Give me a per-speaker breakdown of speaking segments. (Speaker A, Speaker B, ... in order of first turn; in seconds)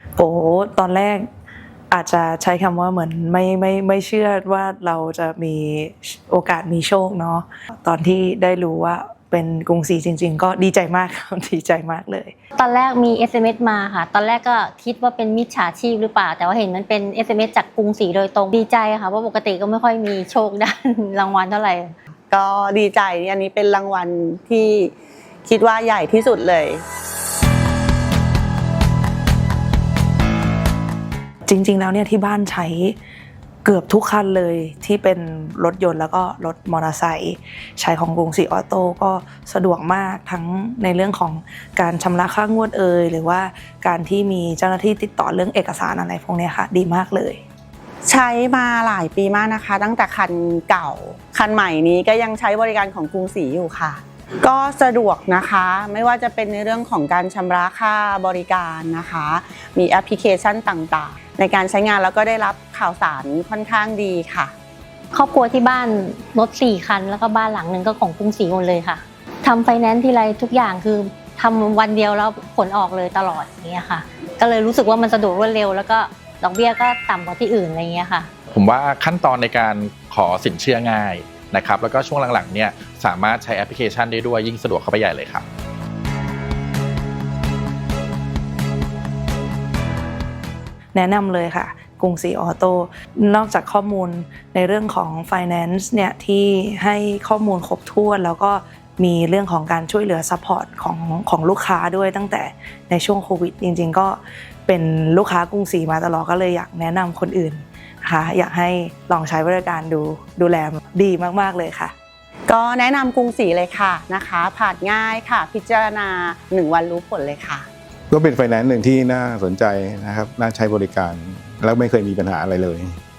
Speaker A: 0.2-1.3, 1.9-12.3, 31.5-33.0, 33.6-47.4, 90.9-111.9
Speaker B: 12.6-21.9, 65.1-78.3
Speaker C: 22.3-24.9, 25.5-26.8, 48.1-64.5, 112.5-117.7
Speaker D: 78.5-85.5
Speaker E: 118.1-123.0